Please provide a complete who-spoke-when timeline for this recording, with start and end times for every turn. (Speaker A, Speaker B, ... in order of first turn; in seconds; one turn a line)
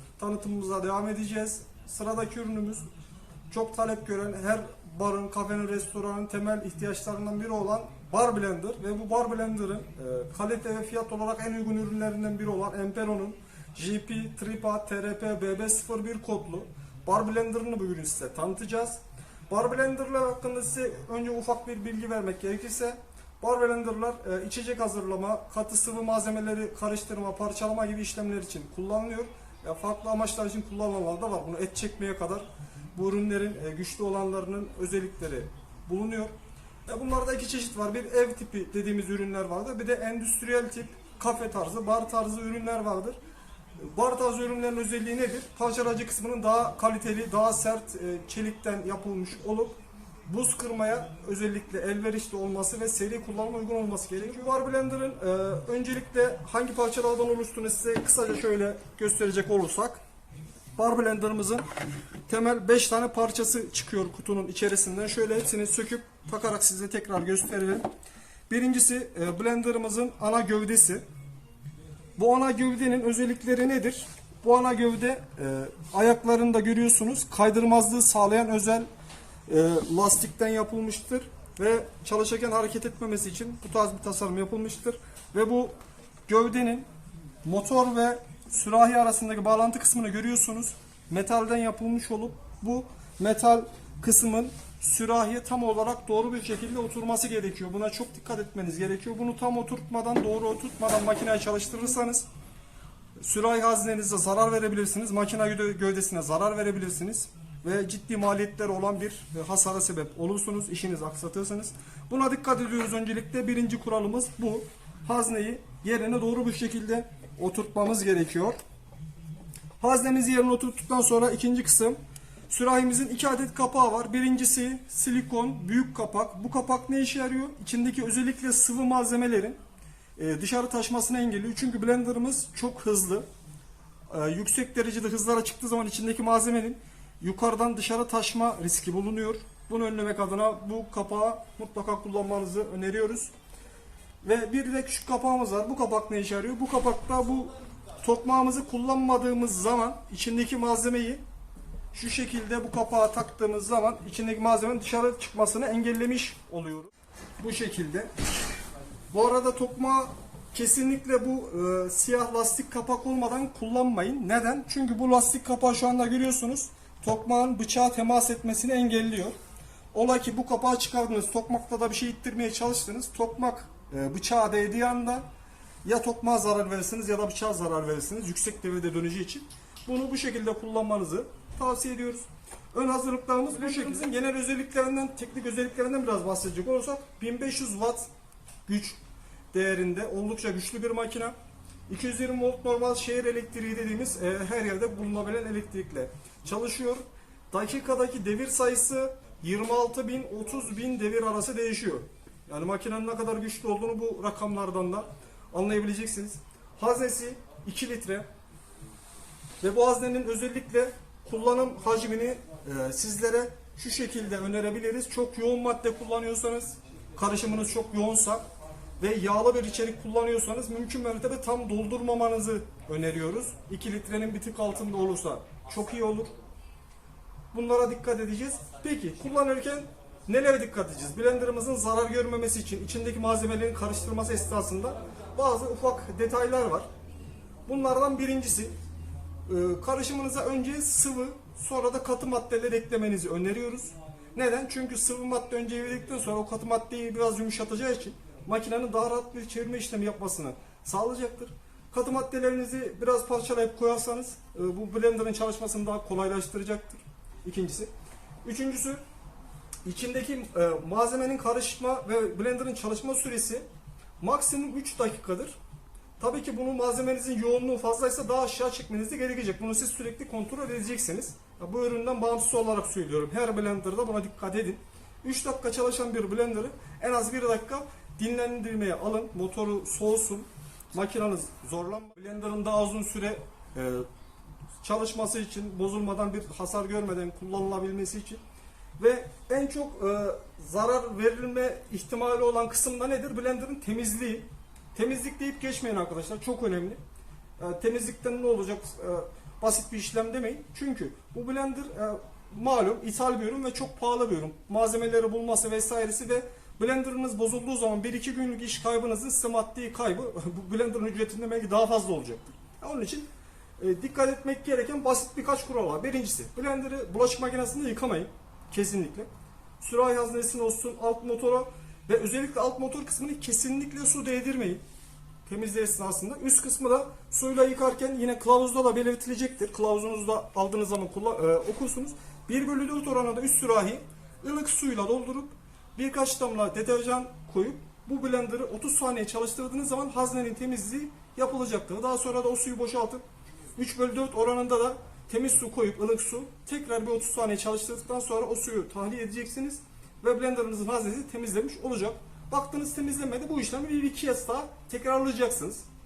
Speaker A: 0.2-2.9
Speaker A: 3.5-36.3
Speaker A: 36.9-43.2
Speaker A: 43.8-49.8
Speaker A: 50.3-60.0
Speaker A: 60.8-61.6
Speaker A: 62.3-67.9
Speaker A: 68.5-71.0
Speaker A: 72.2-78.9
Speaker A: 79.5-85.7
Speaker A: 86.3-86.9
Speaker A: 87.4-102.3
Speaker A: 103.2-118.6
Speaker A: 119.8-122.0
Speaker A: 122.5-129.6
Speaker A: 130.2-133.2
Speaker A: 134.1-143.3
Speaker A: 144.2-151.2
Speaker A: 151.9-158.1
Speaker A: 159.1-169.3
Speaker A: 169.9-175.3
Speaker A: 175.8-188.1
Speaker A: 188.7-189.0
Speaker A: 189.5-191.3
Speaker A: 191.9-208.3
Speaker A: 209.6-218.4
Speaker A: 219.0-226.3
Speaker A: 227.5-236.9
Speaker A: 237.7-238.7
Speaker A: 239.5-257.9
Speaker A: 258.4-259.0
Speaker A: 259.9-263.7
Speaker A: 264.2-265.6
Speaker A: 266.2-284.1
Speaker A: 284.8-288.4
Speaker A: 289.0-297.0
Speaker A: 297.6-319.3
Speaker A: 319.8-324.8
Speaker A: 325.5-343.2
Speaker A: 343.8-355.9